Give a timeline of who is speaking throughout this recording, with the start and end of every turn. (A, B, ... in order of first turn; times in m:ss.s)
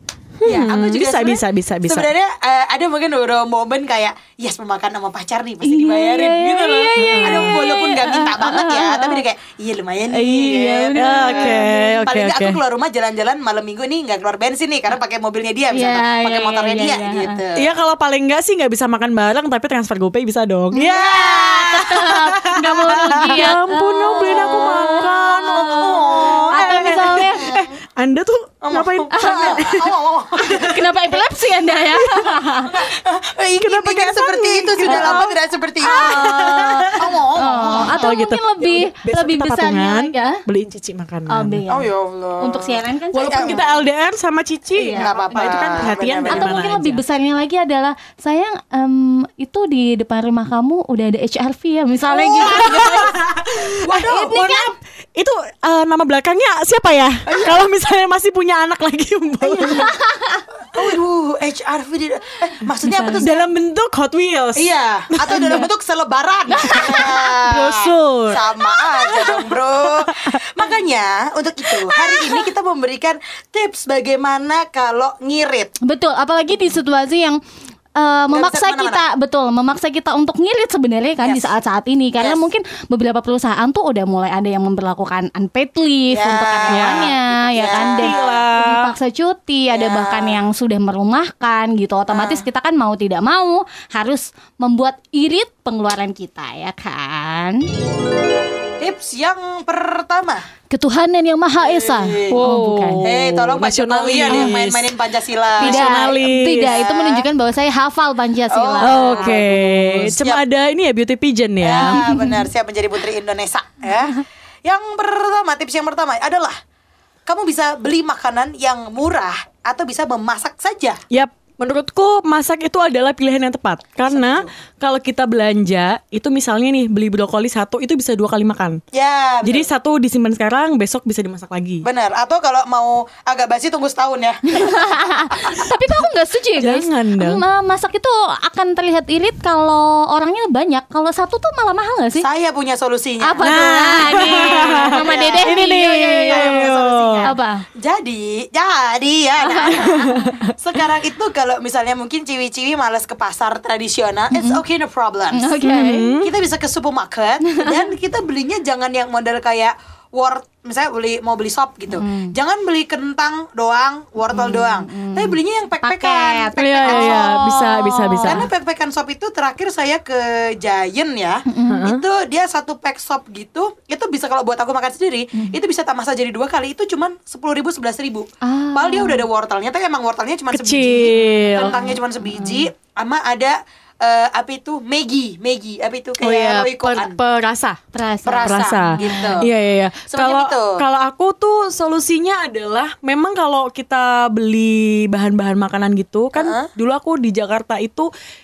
0:00.4-0:02.1 A
0:00.4-0:17.7 B
0:05.6-0:09.2 C
0:07.0-0:07.6 A
0:10.1-0:11.7 C
0:10.9-0:12.6 A
0:15.7-0:17.4 C
0:17.6-0:29.9 A
0:20.7-0:22.1 B
0:20.8-0:27.6 C
0:25.4-0:27.7 B
0:28.6-0:30.8 B
0:29.1-0:29.6 C
0:30.4-0:32.8 C
0:31.9-0:32.4 A
0:32.7-0:38.0 B
0:33.6-0:37.1 A
0:34.8-0:35.2 C
0:35.8-0:40.4 C
0:37.7-0:41.6 A
0:41.3-0:43.7 C
0:41.7-0:43.6 B
0:43.1-0:47.0 A
0:44.7-0:53.2 C
0:44.9-0:46.6 B
0:52.2-0:53.1 B
0:52.2-0:59.9 A
0:53.8-0:54.3 B
0:53.9-0:54.7 C
0:57.3-0:57.7 B
0:59.5-1:00.4 C
0:59.5-0:59.9 B
1:00.7-1:03.5 B
1:02.8-1:03.2 C
1:03.2-1:05.7 A
1:04.5-1:15.7 B
1:05.3-1:05.6 C
1:06.5-1:07.1 C
1:06.6-1:10.6 A
1:15.8-1:17.4 C
1:18.0-1:37.6 C
1:18.3-1:19.0 B
1:21.2-1:21.5 B
1:22.2-1:22.4 B
1:26.1-1:28.4 B
1:26.7-1:27.1 A
1:27.7-1:28.9 A
1:29.7-1:30.4 B
1:32.1-1:32.4 B
1:38.8-1:40.4 B
1:40.7-1:43.0 C
1:41.6-1:42.4 B
1:42.3-1:44.9 A
1:43.0-1:47.2 B
1:45.6-1:46.7 A
1:45.6-1:49.4 C
1:48.5-1:50.4 B
1:48.8-1:52.0 A
1:51.6-1:56.6 B
1:51.8-1:52.5 C
1:57.2-2:01.0 B
2:01.1-2:08.8 A
2:04.1-2:04.5 B
2:08.9-2:09.7 B
2:09.4-2:11.8 A
2:11.8-2:15.7 B
2:14.5-2:22.2 C
2:16.6-2:17.4 A
2:22.2-2:23.5 B
2:23.2-2:26.6 C
2:23.4-2:27.3 A
2:24.2-2:35.6 B
2:27.2-2:27.6 C
2:29.4-2:30.3 C
2:29.8-2:30.5 A
2:34.3-2:34.6 C
2:35.3-2:36.1 C
2:35.6-2:36.3 A
2:36.2-2:47.4 B
2:37.5-2:37.8 C
2:41.9-2:42.3 C
2:44.3-2:48.5 C
2:46.6-2:48.4 A
2:48.2-3:07.2 B
2:51.5-2:51.8 C
2:51.7-2:52.0 A
2:58.4-2:59.2 C
3:00.5-3:01.8 A
3:01.5-3:02.6 C
3:06.2-3:07.8 A
3:07.9-3:09.4 C
3:08.2-3:09.5 B
3:08.4-3:18.1 A
3:10.1-3:10.8 B
3:16.3-3:16.7 B